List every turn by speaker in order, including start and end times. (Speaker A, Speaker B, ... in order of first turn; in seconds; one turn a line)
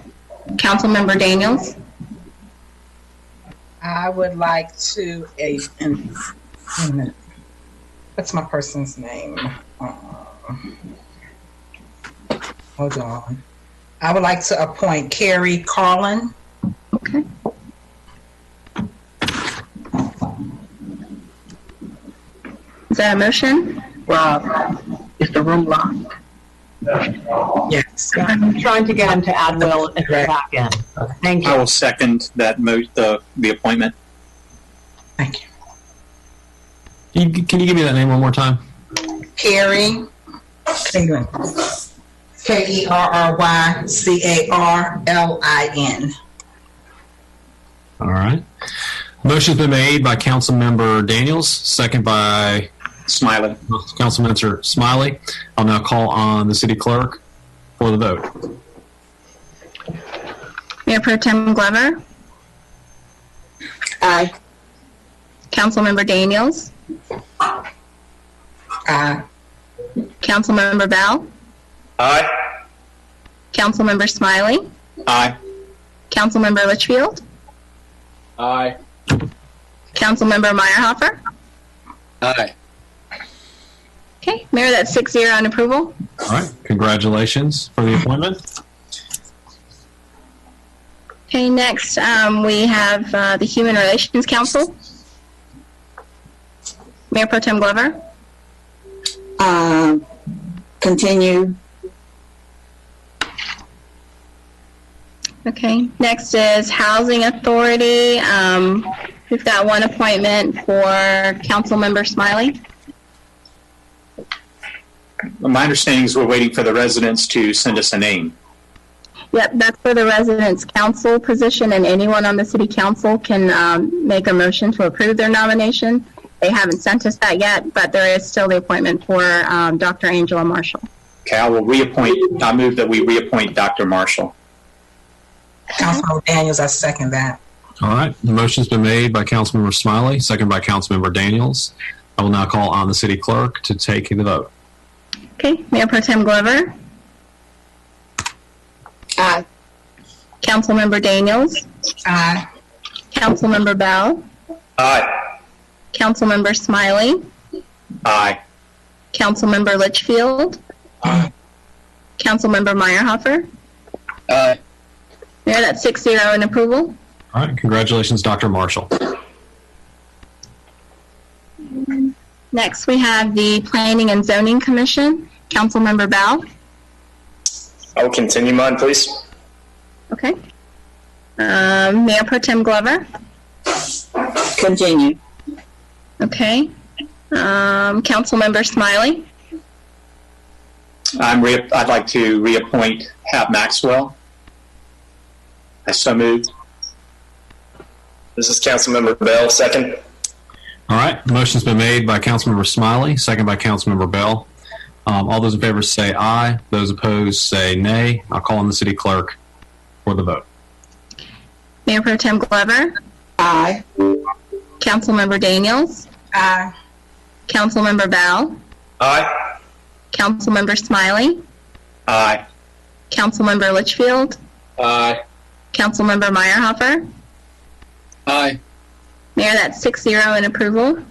Speaker A: 0.6-1.8
Speaker B: 3.8-6.1
Speaker B: 6.8-7.1
Speaker B: 8.2-10.7
Speaker B: 12.8-13.4
Speaker B: 14.0-16.3
Speaker A: 17.0-17.2
Speaker A: 22.9-23.8
Speaker C: 24.1-24.5
Speaker C: 25.2-26.0
Speaker B: 27.7-28.3
Speaker C: 28.2-31.6
Speaker B: 29.6-30.3
Speaker D: 31.4-33.9
Speaker B: 35.2-35.4
Speaker E: 37.1-38.6
Speaker B: 39.4-40.1
Speaker B: 40.8-41.5
Speaker B: 42.4-46.1
Speaker E: 48.0-48.4
Speaker E: 49.2-52.7
Speaker D: 53.1-53.6
Speaker E: 53.7-57.2
Speaker E: 57.8-58.5
Speaker A: 60.9-62.0
Speaker F: 64.0-64.3
Speaker A: 65.5-66.7
Speaker B: 68.9-69.2
Speaker A: 70.2-71.3
Speaker G: 72.0-72.3
Speaker A: 73.5-74.6
Speaker D: 75.1-75.3
Speaker A: 76.1-77.2
Speaker D: 78.4-78.8
Speaker A: 80.0-81.2
Speaker D: 82.2-82.5
Speaker A: 84.2-86.0
Speaker E: 86.2-88.4
Speaker A: 91.3-94.8
Speaker A: 97.1-98.0
Speaker F: 99.4-100.0
Speaker F: 100.8-101.6
Speaker A: 105.5-112.6
Speaker D: 115.4-118.3
Speaker A: 119.3-130.8
Speaker D: 131.3-134.3
Speaker B: 135.8-137.4
Speaker E: 137.8-144.5
Speaker A: 145.4-146.7
Speaker F: 149.2-149.4
Speaker A: 150.4-151.7
Speaker B: 152.1-152.4
Speaker A: 153.1-154.2
Speaker D: 154.8-155.1
Speaker A: 155.9-157.2
Speaker D: 158.1-158.4
Speaker A: 159.1-160.6
Speaker A: 162.2-163.5
Speaker D: 164.3-164.6
Speaker A: 165.5-166.9
Speaker E: 167.3-169.1
Speaker A: 171.7-176.4
Speaker G: 178.0-179.2
Speaker A: 181.4-183.1
Speaker F: 184.5-185.2
Speaker A: 186.2-186.7
Speaker A: 187.3-189.3
Speaker D: 191.2-194.2
Speaker D: 195.9-196.5
Speaker G: 198.4-200.0
Speaker E: 200.9-204.5
Speaker E: 205.1-209.4
Speaker E: 210.1-210.4
Speaker A: 211.9-212.9
Speaker F: 213.4-214.1
Speaker A: 214.8-216.1
Speaker B: 216.3-216.7
Speaker A: 217.5-218.6
Speaker D: 219.0-219.3
Speaker A: 220.1-221.4
Speaker D: 222.1-222.4
Speaker A: 223.1-224.4
Speaker D: 224.8-225.2
Speaker A: 225.7-227.0
Speaker D: 228.3-228.6
Speaker A: 229.4-231.0